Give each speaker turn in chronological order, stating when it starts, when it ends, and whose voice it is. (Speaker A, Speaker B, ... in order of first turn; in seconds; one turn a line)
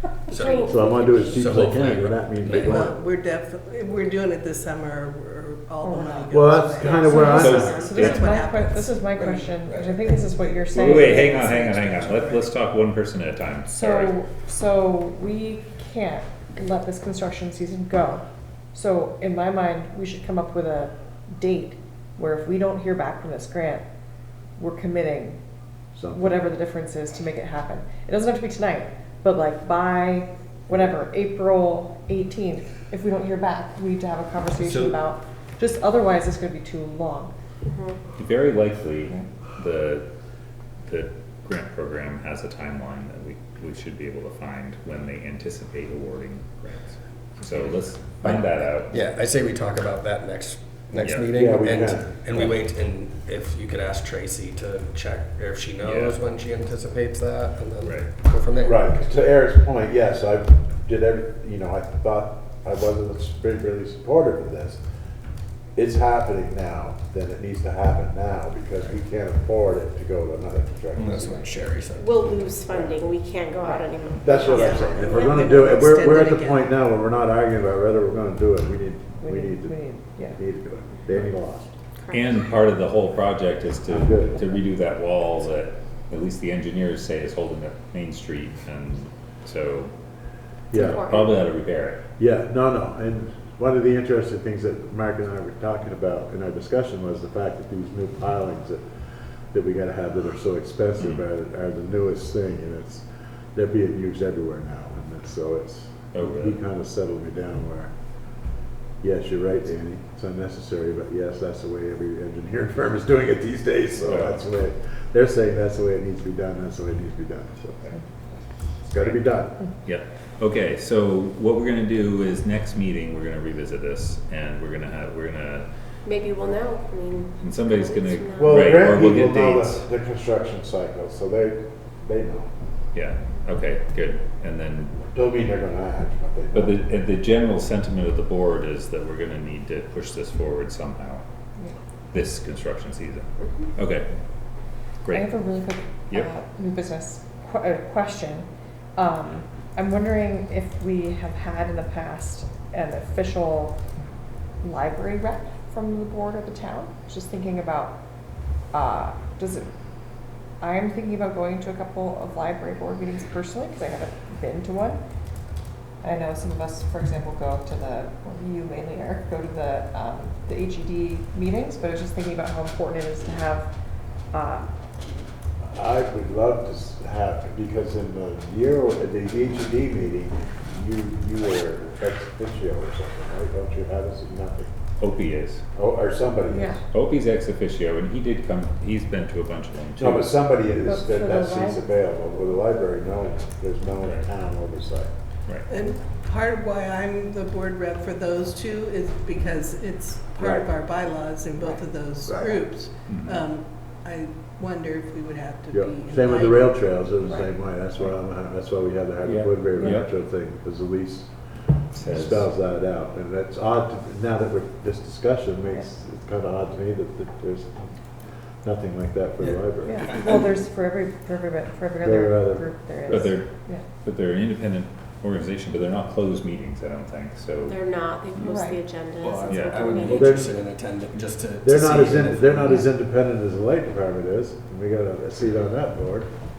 Speaker A: 0.3-2.9
Speaker B: 0.3-1.4
Speaker C: 0.7-2.9
Speaker D: 2.4-9.5
Speaker B: 5.8-6.3
Speaker C: 6.3-7.9
Speaker E: 7.1-11.7
Speaker F: 7.3-8.3
Speaker A: 9.1-10.2
Speaker F: 10.7-14.2
Speaker D: 10.7-12.5
Speaker E: 13.7-23.8
Speaker E: 24.6-25.4
Speaker C: 25.9-26.5
Speaker E: 26.1-37.3
Speaker F: 34.6-35.0
Speaker B: 37.6-38.0
Speaker F: 38.2-40.0
Speaker F: 40.9-49.0
Speaker A: 47.6-58.9
Speaker F: 51.0-51.3
Speaker C: 51.3-52.2
Speaker F: 55.8-56.2
Speaker F: 57.8-58.1
Speaker C: 58.6-64.8
Speaker C: 65.7-71.5
Speaker A: 70.9-72.3
Speaker B: 72.0-75.3
Speaker C: 72.4-73.1
Speaker C: 74.2-81.7
Speaker D: 74.9-76.7
Speaker E: 79.2-80.4
Speaker B: 82.0-82.3
Speaker F: 82.1-89.9
Speaker C: 83.9-84.5
Speaker F: 90.7-92.0
Speaker C: 90.7-91.3
Speaker B: 90.8-91.3
Speaker C: 92.2-98.8
Speaker C: 99.5-103.0
Speaker C: 103.5-107.9
Speaker F: 106.1-106.6
Speaker C: 109.0-117.9
Speaker F: 114.0-114.4
Speaker C: 118.8-119.6
Speaker F: 119.8-125.7
Speaker B: 126.0-128.6
Speaker F: 127.4-129.8
Speaker C: 128.4-132.5
Speaker F: 132.9-135.0
Speaker C: 135.1-136.8
Speaker F: 136.5-141.2
Speaker F: 142.1-144.1
Speaker F: 145.0-145.3
Speaker E: 145.1-153.8
Speaker E: 154.6-158.0
Speaker E: 158.7-159.7
Speaker E: 160.6-165.0
Speaker E: 166.0-173.7
Speaker E: 174.3-174.7
Speaker C: 175.7-184.7
Speaker F: 185.0-185.6
Speaker C: 185.8-186.8
Speaker E: 186.5-186.8
Speaker F: 186.9-190.3
Speaker C: 190.0-195.1
Speaker E: 190.8-191.8
Speaker D: 195.7-207.4
Speaker C: 200.4-200.6
Speaker C: 202.2-202.6
Speaker F: 203.1-203.4
Speaker C: 205.7-211.3
Speaker F: 209.2-210.1
Speaker F: 211.9-212.5
Speaker C: 211.9-217.9
Speaker C: 218.6-220.2
Speaker A: 219.4-220.6
Speaker E: 219.8-223.8
Speaker C: 222.0-223.3
Speaker F: 223.1-223.5
Speaker F: 224.0-227.8
Speaker B: 227.7-230.3
Speaker E: 228.4-228.8
Speaker A: 229.2-232.8
Speaker F: 229.5-229.8
Speaker C: 230.0-230.5
Speaker C: 231.6-236.3